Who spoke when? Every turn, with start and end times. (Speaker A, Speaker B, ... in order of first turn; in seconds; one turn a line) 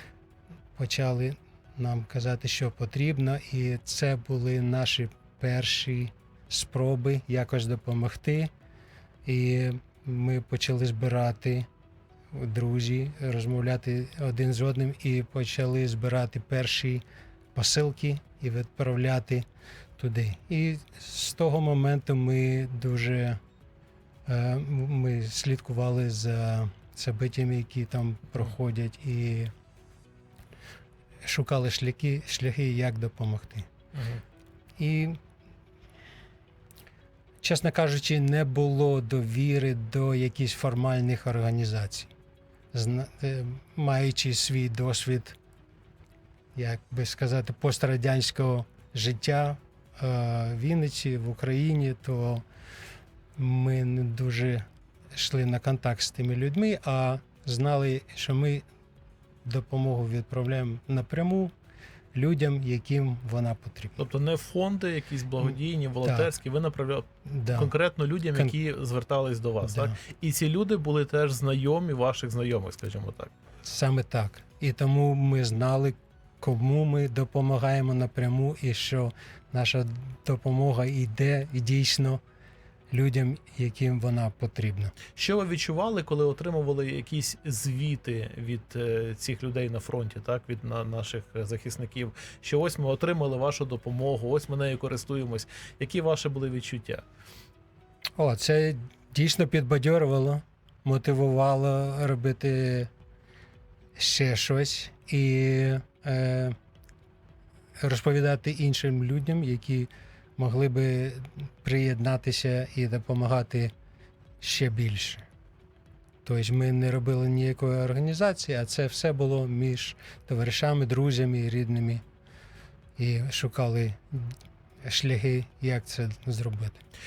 Speaker A: 0.8-8.5
Speaker A: 9.2-11.7
Speaker A: 12.3-17.0
Speaker A: 17.5-19.4
Speaker A: 20.0-23.4
Speaker A: 24.3-29.5
Speaker A: 31.2-33.7
Speaker B: 33.9-34.2
Speaker A: 34.8-35.2
Speaker A: 37.4-42.1
Speaker A: 42.7-45.4
Speaker A: 46.5-52.4
Speaker A: 53.4-58.6
Speaker A: 59.4-61.5
Speaker A: 62.1-64.0
Speaker B: 64.0-73.3
Speaker A: 65.4-66.3
Speaker A: 67.2-67.7
Speaker A: 69.6-70.0
Speaker A: 73.6-82.2
Speaker A: 82.9-85.0
Speaker B: 85.1-97.0
Speaker A: 98.2-102.9
Speaker A: 104.0-106.5
Speaker A: 107.8-113.7
Speaker A: 114.4-115.2
Speaker A: 116.2-122.0
Speaker A: 123.0-126.8